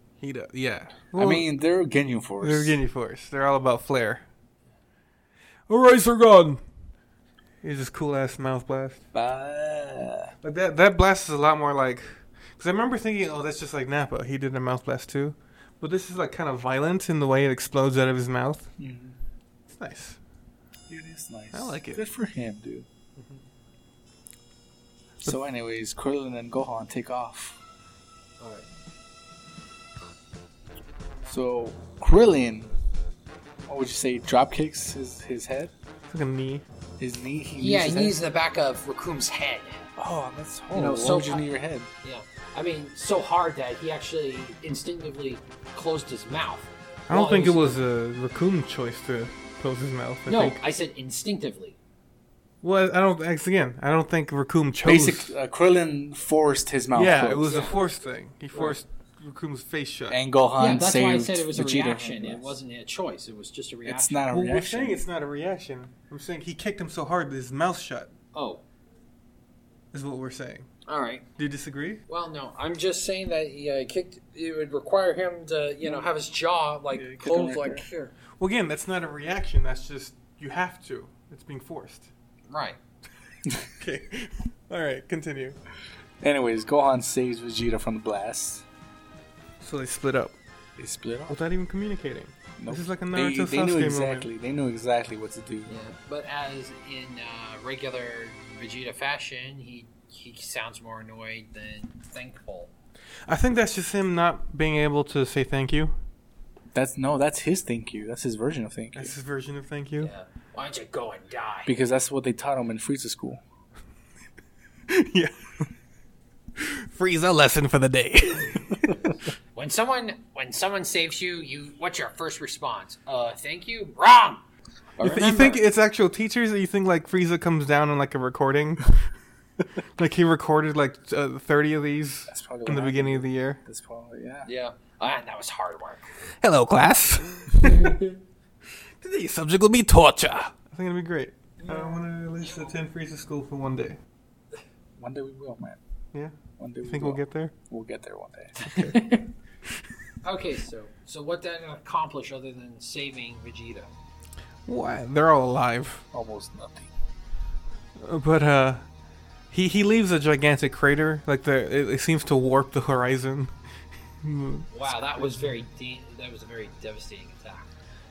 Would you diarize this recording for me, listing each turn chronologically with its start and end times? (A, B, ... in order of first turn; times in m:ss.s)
0:00.2-0:01.5 A
0:01.1-0:02.8 B
0:02.4-0:04.2 A
0:05.7-0:06.6 A
0:07.6-0:09.0 A
0:09.1-0:10.3 B
0:10.4-0:18.7 A
0:18.8-0:19.2 B
0:19.7-0:20.2 A
0:20.9-0:22.9 B
0:21.5-0:22.0 A
0:25.2-0:27.6 B
0:28.4-0:28.6 C
0:31.2-0:32.7 B
0:33.7-0:35.7 B
0:36.1-0:36.6 A
0:37.0-0:38.2 B
0:37.6-0:39.8 C
0:40.0-0:41.9 B
0:40.7-0:41.5 C
0:42.0-0:47.8 C
0:47.1-0:50.6 A
0:50.3-0:51.8 C
0:52.6-0:55.3 A
0:54.8-0:57.6 B
0:56.9-1:00.2 A
0:57.5-0:57.8 C
1:00.1-1:02.6 B
1:00.6-1:04.2 C
1:03.8-1:05.0 B
1:04.3-1:08.1 A
1:08.3-1:08.6 C
1:09.9-1:10.7 A
1:10.9-1:11.2 C
1:11.4-1:12.0 A
1:12.1-1:18.1 C
1:16.9-1:17.8 B
1:18.4-1:22.1 A
1:22.5-1:22.8 C
1:23.8-1:25.6 A
1:26.2-1:28.6 B
1:29.6-1:30.4 A
1:30.8-1:31.4 B
1:31.3-1:34.3 A
1:32.6-1:35.9 B
1:35.7-1:42.7 C
1:43.3-1:46.0 A
1:46.7-1:49.1 B
1:48.9-1:50.1 A
1:50.0-1:51.7 C
1:51.6-1:53.4 B
1:54.9-1:55.6 A
1:56.6-1:59.2 A
1:59.5-2:04.4 C
2:05.0-2:05.6 C
2:05.0-2:09.0 A
2:10.0-2:13.6 A
2:12.3-2:14.5 B
2:14.4-2:16.1 C
2:16.4-2:18.0 A
2:19.0-2:24.0 A
2:21.6-2:22.7 C
2:25.0-2:25.8 B
2:26.1-2:27.5 A
2:26.6-2:28.6 B
2:28.6-2:29.0 A
2:28.6-2:29.3 C
2:30.2-2:33.9 C
2:34.7-2:36.0 A
2:36.1-2:36.9 B
2:38.0-2:38.8 A
2:39.5-2:43.5 A
2:44.2-2:45.5 A
2:44.7-2:47.7 C